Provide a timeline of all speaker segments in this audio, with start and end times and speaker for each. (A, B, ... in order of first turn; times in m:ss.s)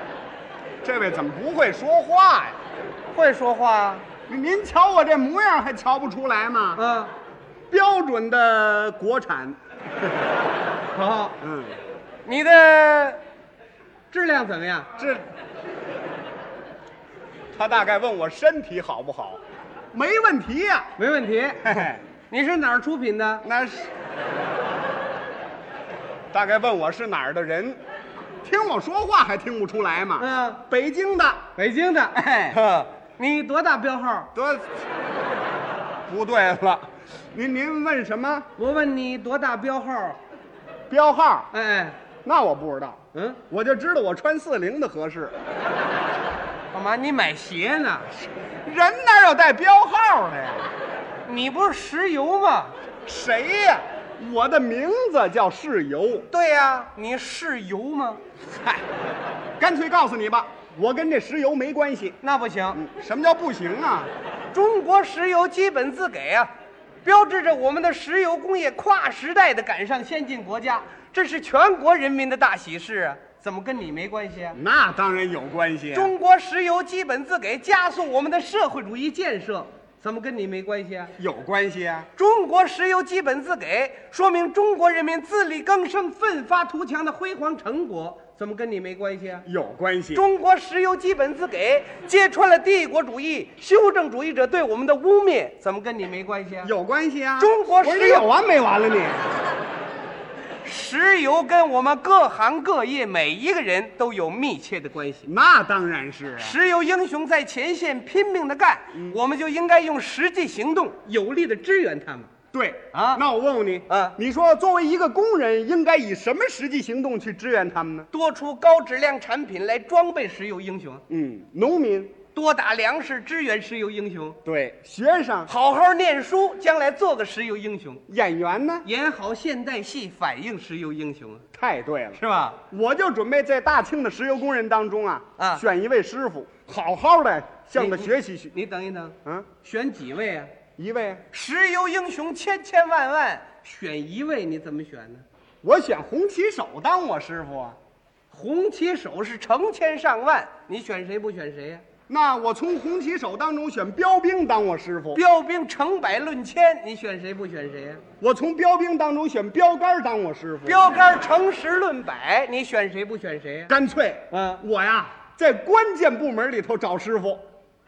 0:00.8-0:02.6 A
0:03.1-0:04.0 B
0:04.3-0:06.8 A
0:06.8-0:07.1 B
0:07.7-0:09.6 A
0:10.9-0:11.4 B
0:11.4-0:11.8 A
0:12.2-0:13.2 B
0:14.1-0:14.9 B
0:15.0-0:15.2 A
0:17.5-0:19.4 A
0:19.9-0:20.9 A
0:21.0-0:23.4 B
0:21.6-0:22.0 A
0:23.4-0:23.9 A
0:26.3-0:27.8 A
0:28.4-0:31.4 A
0:30.2-0:30.6 B
0:31.6-0:34.3 B
0:32.1-0:32.6 A
0:34.3-0:34.7 A
0:36.1-0:38.5 A
0:38.6-0:40.2 B
0:40.9-0:41.5 A
0:41.5-0:42.0 B
0:42.2-0:45.3 A
0:43.1-0:43.4 B
0:46.7-0:48.1 B
0:48.6-0:50.7 A
0:51.2-0:52.7 B
0:53.0-0:56.3 A
0:56.3-0:58.2 B
0:58.5-0:58.8 A
0:59.6-1:02.2 A
1:02.2-1:02.8 B
1:02.7-1:04.1 A
1:04.5-1:06.5 B
1:07.0-1:14.6 B
1:14.5-1:16.1 A
1:15.9-1:21.1 B
1:21.2-1:22.1 A
1:22.2-1:29.5 B
1:29.4-1:30.2 A
1:30.1-1:36.7 B
1:36.6-1:39.3 A
1:37.4-1:38.3 B
1:40.6-1:45.3 B
1:45.2-1:46.6 A
1:46.4-1:52.3 B
1:52.5-1:58.1 A
1:52.9-1:53.2 B
1:53.9-1:54.2 B
1:58.1-2:01.0 B
2:01.1-2:02.2 A
2:02.3-2:04.4 B
2:04.4-2:05.5 A
2:05.5-2:08.0 B
2:08.1-2:08.8 A
2:08.8-2:11.4 B
2:11.5-2:18.5 A
2:12.2-2:12.6 B
2:15.4-2:15.6 B
2:17.7-2:20.5 B
2:20.8-2:21.2 A
2:21.3-2:25.2 B
2:25.6-2:27.8 A
2:28.3-2:31.8 B
2:32.1-2:35.2 A
2:35.1-2:38.0 B
2:38.2-2:40.9 A
2:40.6-2:43.7 B
2:43.7-2:47.4 A
2:44.3-2:44.6 B